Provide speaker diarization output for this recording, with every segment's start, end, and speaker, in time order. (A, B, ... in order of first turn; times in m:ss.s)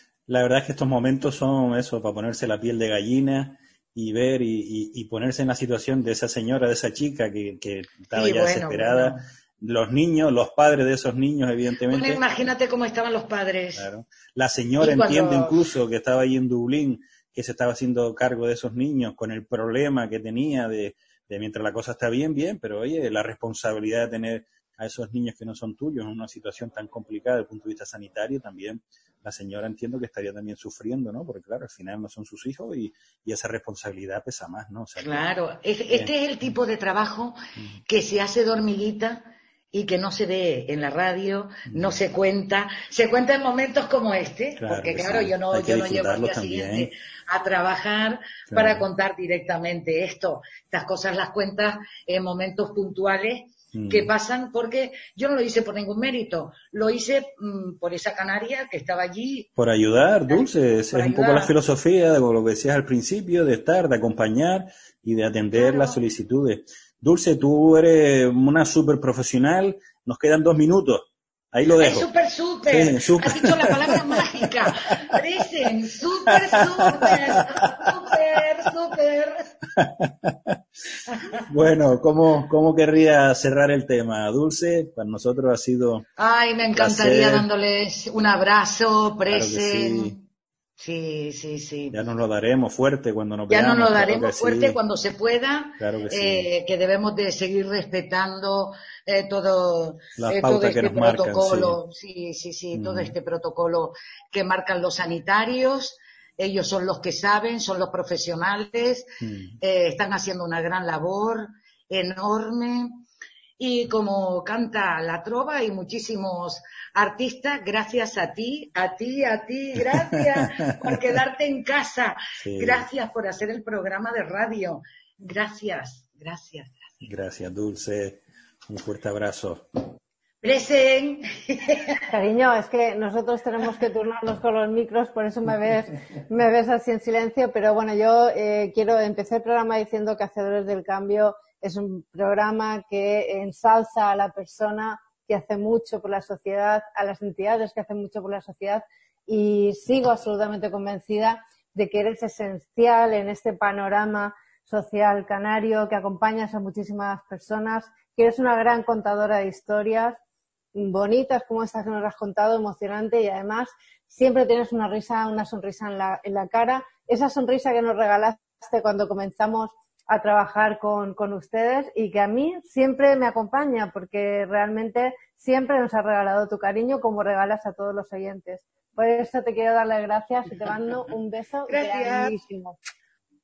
0:00.3-0:12.2 A
0:08.1-0:09.2 B
0:11.9-0:13.9 B
0:13.8-0:35.2 A
0:14.8-0:15.6 B
0:35.0-0:59.5 B
0:41.7-0:42.0 A
0:44.6-0:46.9 A
0:48.5-0:48.8 A
0:53.8-0:54.1 A
0:59.6-1:12.1 A
1:00.3-1:01.5 B
1:05.6-1:06.0 B
1:11.7-1:19.5 B
1:12.7-1:15.2 A
1:16.3-1:17.9 A
1:19.8-1:20.6 A
1:21.1-1:21.4 B
1:21.5-1:26.1 A
1:26.2-1:30.2 B
1:26.8-1:27.5 A
1:29.3-1:30.2 A
1:30.8-1:32.0 B
1:31.9-1:34.8 A
1:33.5-1:49.1 B
1:35.8-1:36.5 A
1:40.2-1:41.8 A
1:42.7-1:43.2 A
1:49.2-1:49.5 A
1:49.6-1:53.0 B
1:53.6-2:07.0 B
2:02.4-2:02.9 A
2:07.0-2:09.6 A
2:10.4-2:12.0 B
2:12.1-2:40.2 C
2:40.7-3:02.8 C
3:01.7-3:02.4 B